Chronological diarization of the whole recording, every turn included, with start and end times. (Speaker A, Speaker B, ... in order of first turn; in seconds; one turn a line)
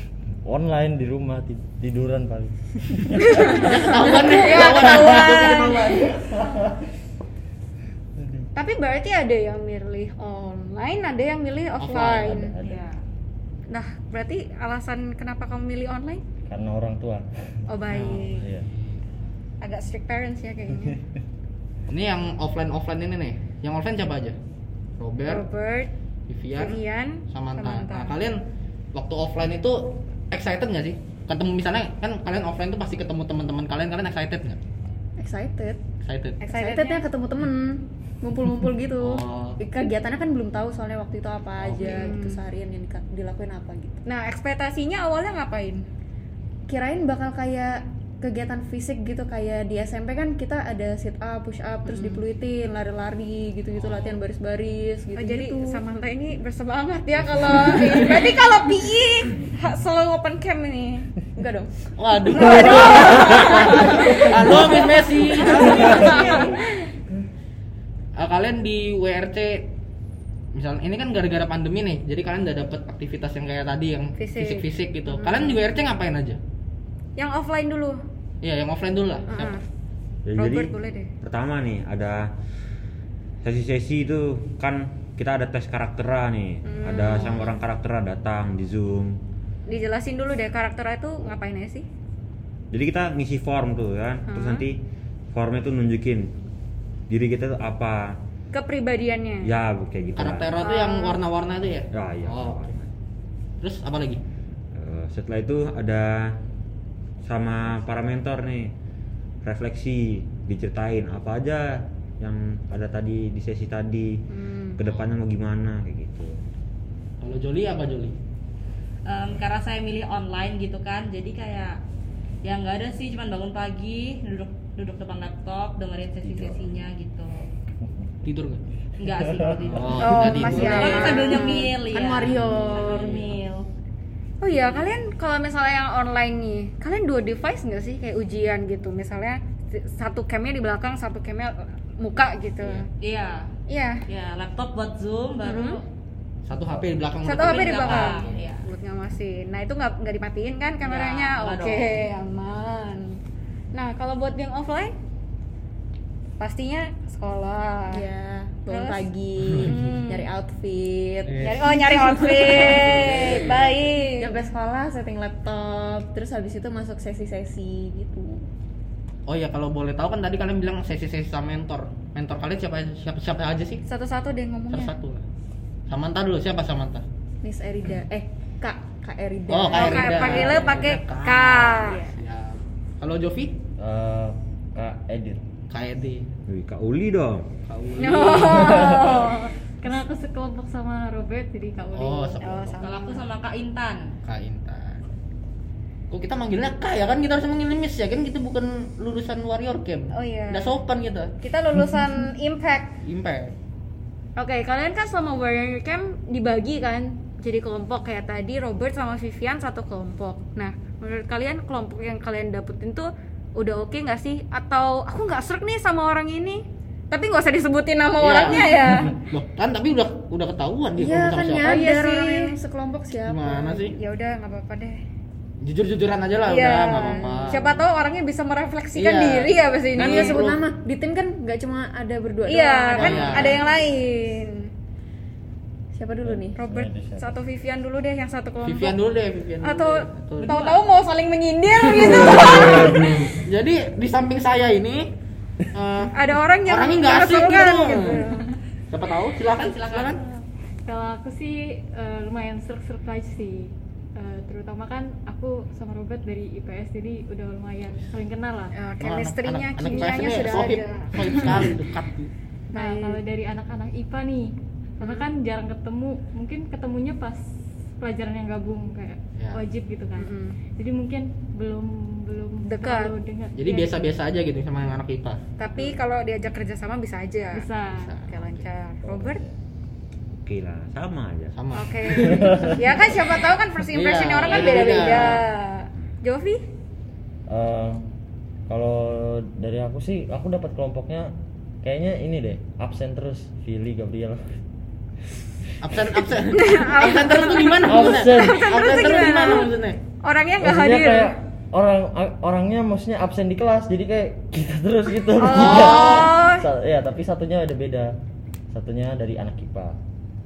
Speaker A: 0.5-3.7
Speaker B: 3.3-5.9
Speaker C: 3.6-6.1
Speaker A: 4.9-5.6
Speaker B: 8.5-12.5
Speaker C: 11.8-12.2
Speaker A: 11.9-12.8
Speaker D: 12.6-13.0
Speaker B: 13.7-16.2
Speaker A: 16.4-17.3
Speaker B: 17.7-18.5
Speaker C: 17.9-19.0
Speaker A: 18.1-18.6
Speaker B: 19.6-21.0
Speaker C: 21.9-24.4
Speaker C: 25.0-25.5
Speaker B: 25.2-25.9
Speaker C: 26.3-28.4
Speaker B: 26.5-28.1
Speaker C: 28.9-34.6
Speaker E: 35.2-35.8
Speaker C: 36.0-36.4
Speaker B: 36.4-37.0
Speaker E: 36.4-44.0
Speaker C: 39.0-39.6
Speaker C: 41.6-42.0
Speaker B: 41.8-42.4
Speaker B: 44.0-45.8
Speaker E: 46.7-55.8
Speaker B: 51.9-52.2
Speaker C: 53.8-54.1
Speaker B: 55.1-61.1
Speaker E: 61.4-62.9
Speaker C: 62.0-66.2
Speaker B: 63.2-63.5
Speaker B: 65.7-66.5
Speaker E: 65.7-66.4
Speaker C: 68.2-69.7
Speaker C: 70.5-76.4
Speaker B: 74.2-75.6
Speaker B: 77.2-78.0
Speaker C: 78.4-79.6
Speaker B: 79.3-79.6
Speaker F: 80.2-82.3
Speaker B: 80.3-81.1
Speaker F: 83.4-89.2
Speaker B: 86.6-87.6
Speaker B: 89.7-91.8
Speaker F: 92.7-94.8
Speaker B: 94.2-94.6
Speaker F: 95.3-96.3
Speaker F: 97.1-98.2
Speaker B: 98.5-99.5
Speaker F: 99.4-100.6
Speaker C: 100.2-102.7
Speaker B: 100.6-101.2
Speaker F: 101.9-102.8
Speaker C: 103.6-104.2
Speaker F: 104.7-106.3
Speaker F: 107.2-108.7
Speaker F: 109.4-111.7
Speaker F: 112.2-114.2
Speaker B: 114.3-114.9
Speaker F: 114.8-116.3
Speaker C: 117.2-118.2
Speaker D: 119.0-121.8
Speaker D: 122.4-127.4
Speaker A: 126.2-126.7
Speaker C: 128.2-128.6
Speaker D: 129.0-133.6
Speaker A: 129.1-129.8
Speaker C: 129.7-131.2
Speaker B: 130.0-131.7
Speaker E: 130.3-133.3
Speaker C: 132.1-133.3
Speaker B: 134.4-142.8
Speaker D: 134.5-134.9
Speaker C: 142.6-142.8
Speaker D: 143.0-143.4
Speaker B: 143.7-144.0
Speaker D: 144.1-145.8
Speaker B: 145.4-145.8
Speaker C: 146.4-148.4
Speaker B: 147.2-153.2
Speaker D: 147.3-148.7
Speaker D: 150.8-152.0
Speaker B: 153.7-154.9
Speaker B: 156.4-158.1
Speaker E: 157.9-168.4
Speaker B: 158.7-159.1
Speaker C: 159.6-159.9
Speaker B: 159.6-160.3
Speaker C: 161.3-161.7
Speaker B: 161.4-164.4
Speaker C: 162.5-163.7
Speaker C: 169.3-173.8
Speaker B: 173.8-174.9
Speaker C: 174.7-175.2
Speaker C: 175.9-177.0
Speaker E: 177.4-181.0
Speaker C: 179.5-183.6
Speaker B: 179.7-182.0
Speaker A: 183.8-185.4
Speaker C: 185.7-186.3
Speaker F: 186.5-187.5
Speaker C: 187.6-189.0
Speaker B: 188.0-189.3
Speaker G: 188.5-192.6
Speaker C: 191.9-192.9
Speaker B: 192.4-193.3
Speaker D: 192.8-194.0
Speaker C: 194.2-195.1
Speaker C: 196.1-201.3
Speaker B: 200.1-200.8
Speaker B: 201.4-202.9
Speaker C: 203.0-203.5
Speaker B: 204.3-219.2
Speaker C: 218.2-221.8
Speaker E: 220.9-223.8
Speaker B: 221.6-222.6
Speaker C: 223.2-224.0
Speaker B: 223.8-225.0
Speaker C: 225.6-227.8
Speaker B: 226.4-230.4
Speaker C: 228.9-230.7
Speaker E: 230.0-233.7
Speaker B: 232.4-234.7
Speaker C: 233.0-233.6
Speaker E: 235.9-236.6
Speaker A: 236.2-237.3
Speaker B: 236.6-243.2
Speaker C: 238.6-240.6
Speaker D: 240.4-240.8
Speaker C: 243.2-245.1
Speaker C: 245.7-246.1
Speaker B: 246.1-248.5
Speaker C: 246.6-248.3
Speaker C: 248.9-250.2
Speaker D: 249.4-250.4
Speaker G: 250.8-258.7
Speaker B: 258.7-261.7
Speaker C: 259.0-262.3
Speaker B: 262.7-263.2
Speaker G: 262.7-267.4
Speaker B: 265.0-265.3
Speaker G: 268.0-273.9
Speaker B: 270.2-270.6
Speaker B: 272.6-273.1
Speaker C: 273.6-275.4
Speaker B: 275.6-277.6
Speaker G: 277.5-278.1
Speaker C: 277.9-278.7
Speaker B: 278.2-279.4
Speaker A: 279.0-279.5
Speaker F: 280.4-281.5
Speaker C: 281.5-283.2
Speaker B: 281.7-286.6
Speaker A: 282.3-282.7
Speaker C: 283.9-285.4
Speaker A: 287.5-288.1
Speaker A: 288.7-294.6
Speaker C: 295.8-300.0
Speaker B: 296.5-301.3
Speaker A: 297.8-298.8
Speaker A: 300.6-308.2
Speaker B: 305.4-306.6
Speaker C: 305.5-306.3
Speaker A: 308.7-310.0